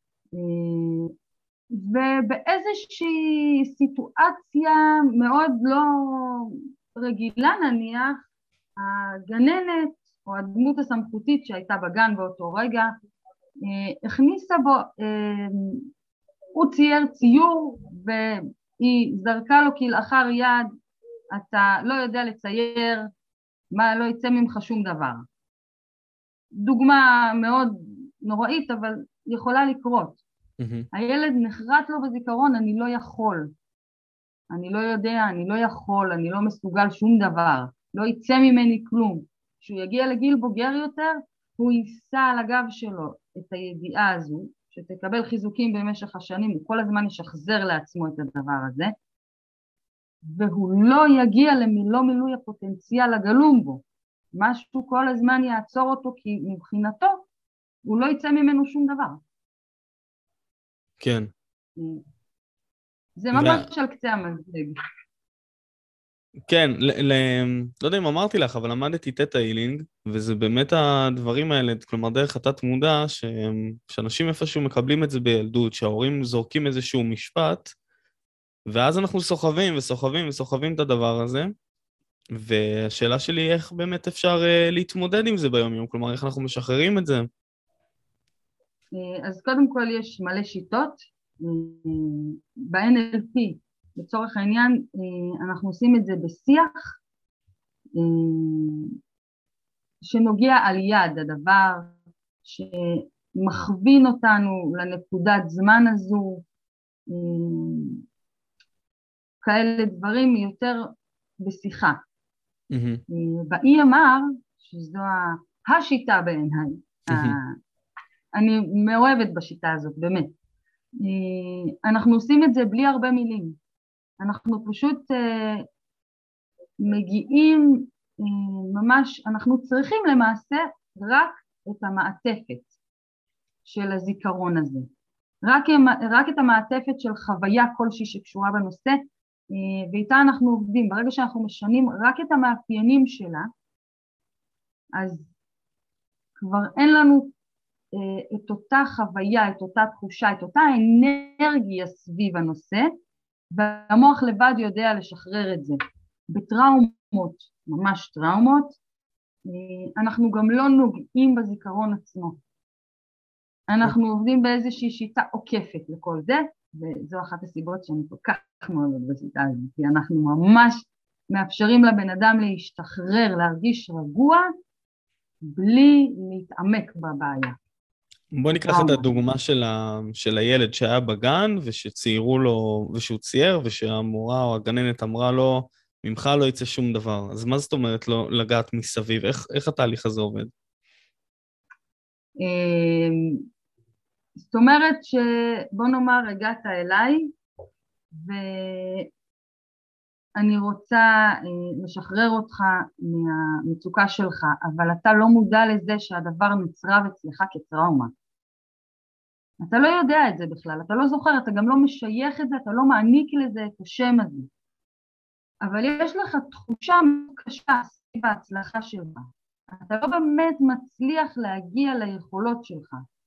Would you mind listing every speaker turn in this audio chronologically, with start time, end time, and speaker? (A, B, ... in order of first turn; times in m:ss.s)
0:00.3-0:01.1 A
0:01.7-0:08.2 A
0:08.8-0:12.9 A
0:13.6-0:15.9 A
0:16.5-0:20.7 A
0:21.3-0:23.1 A
0:23.7-0:25.3 A
0:26.6-0:30.2 A
0:30.6-0:30.9 B
0:30.9-0:33.5 A
0:34.5-0:48.9 A
0:50.2-0:57.2 A
0:57.8-0:59.2 A
1:01.0-1:01.3 B
1:01.8-1:02.0 A
1:03.2-1:04.8 A
1:03.3-1:03.6 B
1:06.5-1:17.7 B
1:18.7-1:21.5 B
1:22.3-1:27.3 B
1:28.9-1:37.0 A
1:38.0-1:39.0 A
1:40.0-1:46.4 A
1:47.1-1:48.0 A
1:49.4-1:50.9 A
1:51.4-1:52.0 A
1:52.7-1:53.0 B
1:53.1-1:57.6 A
1:57.1-1:57.4 B
1:58.3-2:00.3 A
2:01.0-2:03.6 A
2:04.2-2:05.7 A
2:06.8-2:12.7 A
2:13.6-2:14.9 A
2:15.4-2:23.5 A
2:25.0-2:25.3 A
2:26.4-2:27.3 A
2:27.9-2:32.9 A
2:33.5-2:35.8 A
2:36.3-2:38.8 A
2:39.5-2:42.4 A
2:43.7-2:54.5 A
2:55.4-2:57.6 A
2:58.3-3:10.5 B
2:58.5-2:59.2 A
3:12.4-3:13.4 A
3:14.4-3:17.3 A
3:18.1-3:19.1 A
3:20.4-3:28.1 A
3:29.6-3:34.5 A
3:35.6-3:43.0 A